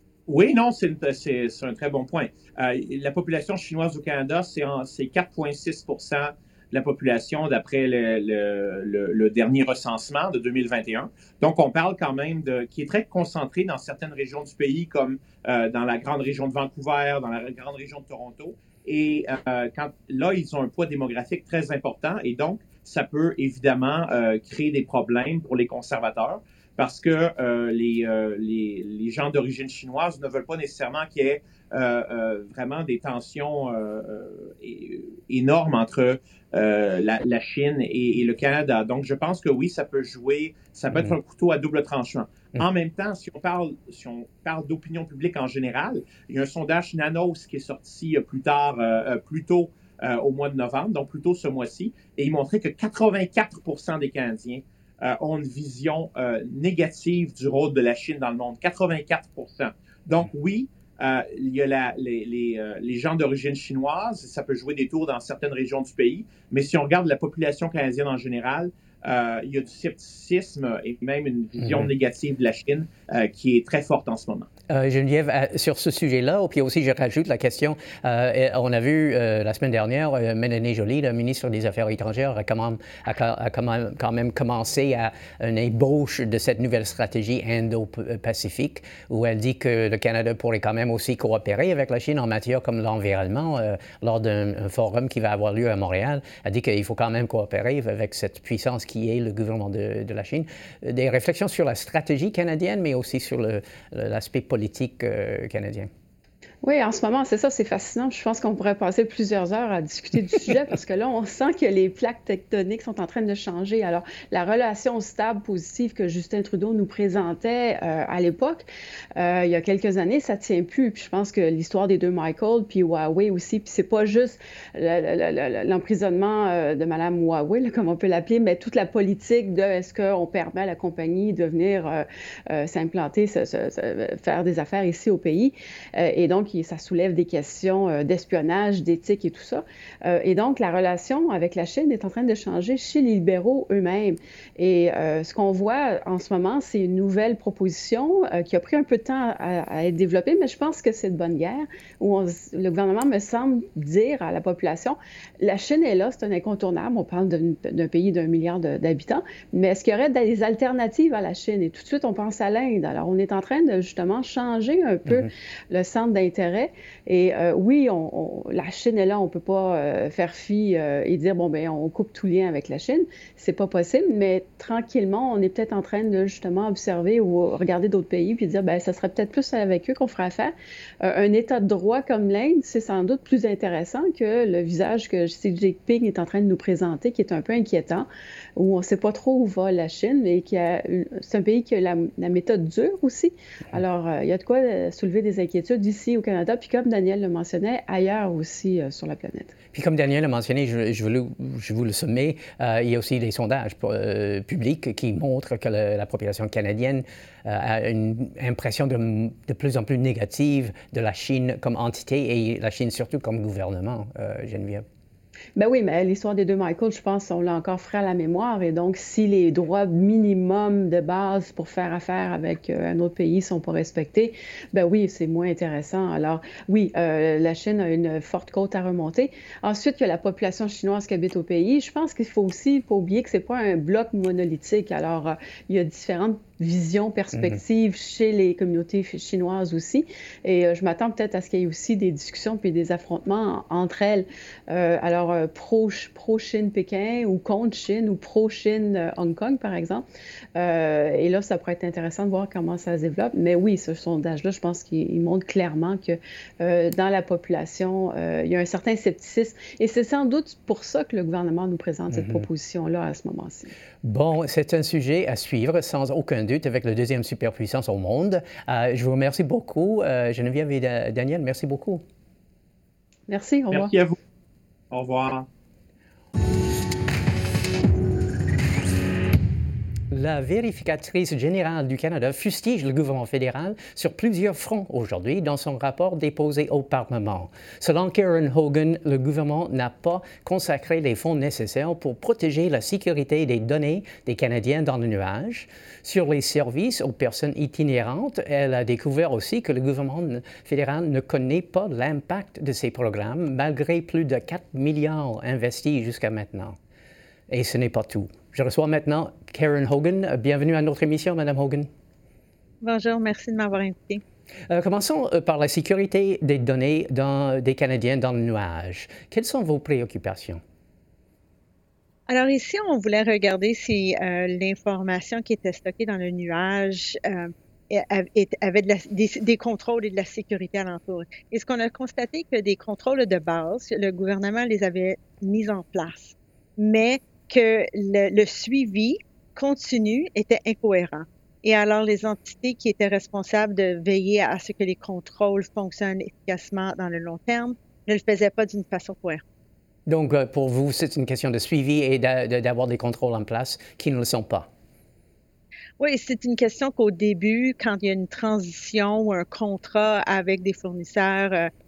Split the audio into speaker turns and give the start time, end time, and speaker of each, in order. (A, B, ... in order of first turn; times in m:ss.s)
0:00.3-1:14.5 A
1:14.7-1:45.9 B
1:46.6-3:19.5 C
3:19.7-3:34.8 B
3:35.6-4:10.0 C
4:10.6-4:23.7 C
4:22.1-4:22.4 B
4:24.0-4:32.0 B
4:33.3-4:33.9 C
4:33.7-4:34.2 A
4:34.9-4:35.5 A
4:40.1-5:06.8 B
5:07.5-5:11.9 B
5:12.8-5:14.2 D
5:14.7-5:20.6 B
5:22.3-5:49.4 D
5:50.1-5:54.7 B
5:56.0-6:01.7 D